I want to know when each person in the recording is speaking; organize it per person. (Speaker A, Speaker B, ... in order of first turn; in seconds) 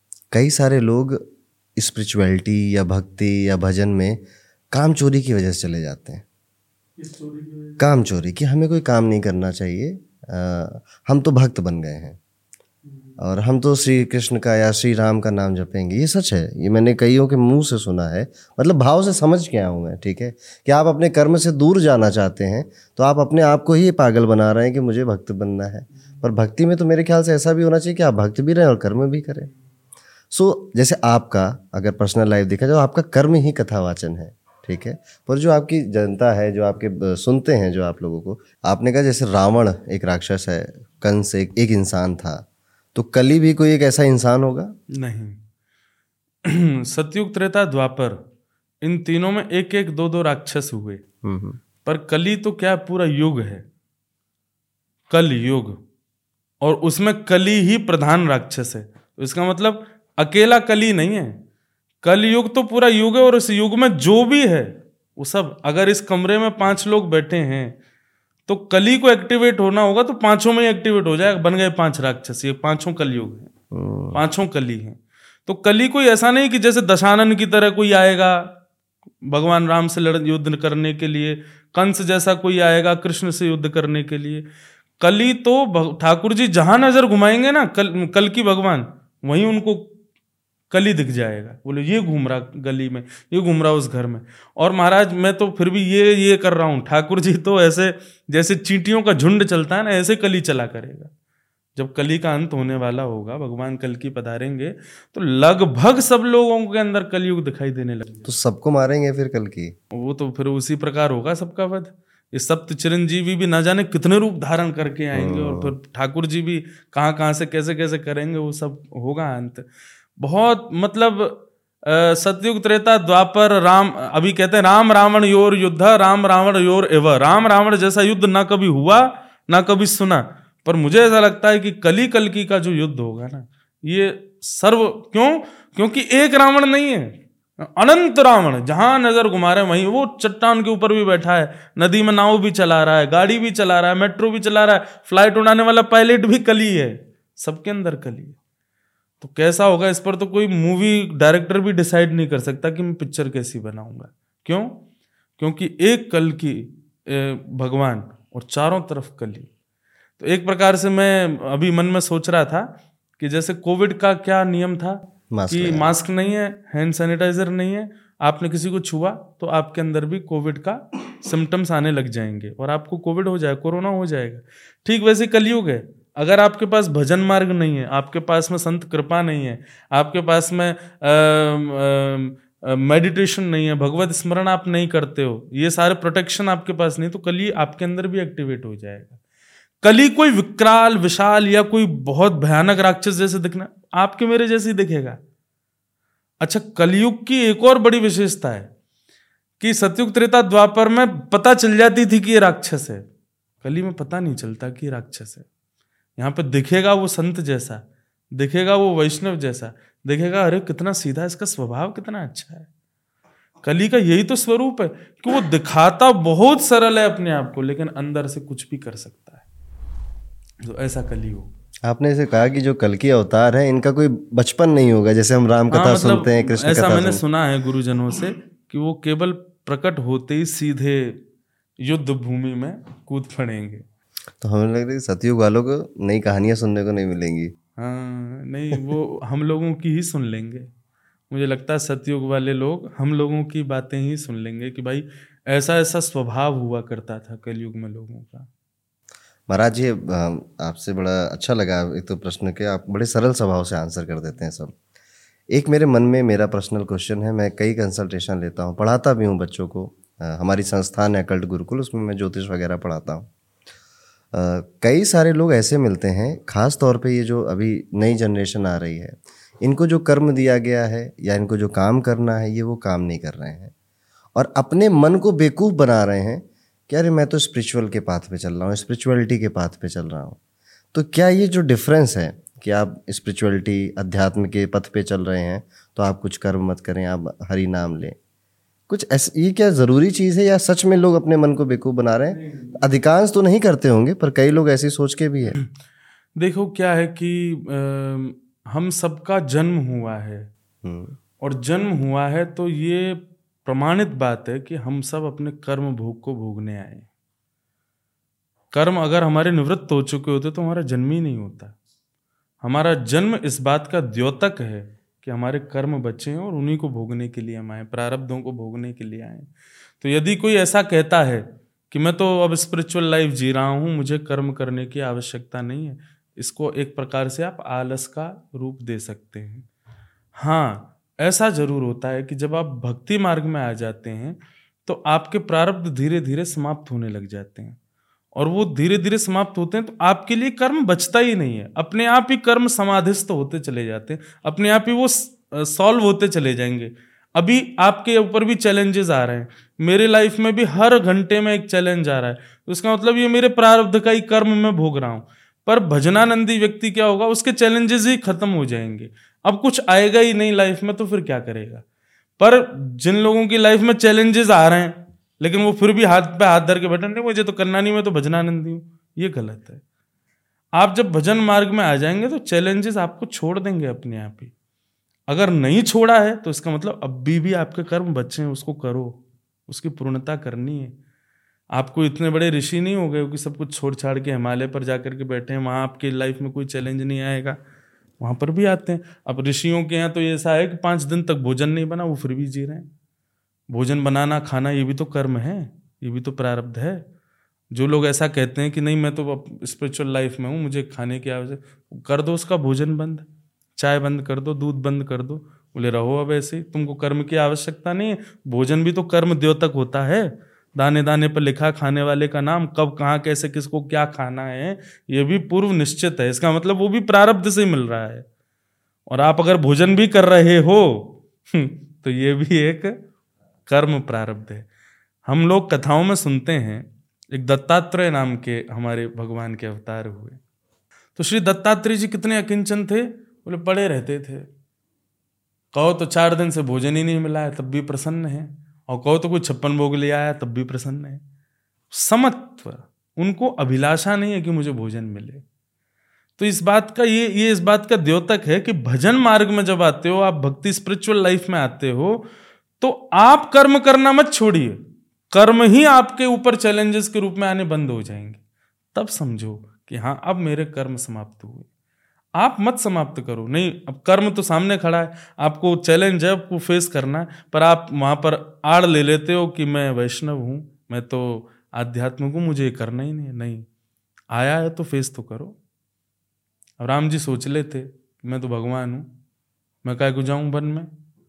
Speaker A: 0.3-1.2, 1.8-4.2, 4.7-6.2, 7.8-12.2, 13.2-29.5, 30.3-44.7, 51.2-51.6, 73.7-74.2, 108.2-109.7, 115.1-115.7, 165.3-165.9, 221.8-227.2, 234.4-237.5, 249.5-254.7, 255.5-263.3, 264.3-273.7, 274.3-280.4, 280.9-288.1, 288.9-295.6, 300.8-301.1
Speaker B: 7.0-7.8, 44.9-45.4, 46.4-48.2, 48.8-51.0, 51.8-53.6, 55.1-55.8, 56.6-61.4, 62.0-67.8, 68.5-73.5, 74.1-78.5, 79.2-84.5, 85.0-89.9, 90.7-101.1, 101.8-108.3, 109.9-148.4, 149.2-154.8, 155.4-159.5, 160.2-189.2, 189.8-195.2, 196.4-198.7, 199.6-203.0, 203.6-205.4, 206.2-207.8, 208.3-212.7, 213.6-219.4, 220.6-221.5, 225.7-231.2, 231.8-233.8, 237.8-240.7, 241.3-248.5, 296.4-300.5, 301.4-307.1, 308.7-311.7, 312.6-329.7, 330.4-337.8, 338.3-361.8, 362.4-369.8, 370.7-374.5, 375.3-380.9, 381.7-387.6, 388.2-392.9, 393.7-397.0, 397.7-418.2, 419.1-422.9, 423.7-424.7, 425.2-430.4, 431.1-434.5, 435.7-441.2, 441.9-445.4, 446.4-452.3, 452.8-458.4, 458.9-461.7, 462.4-473.7, 474.3-475.6, 476.8-479.1, 479.8-480.9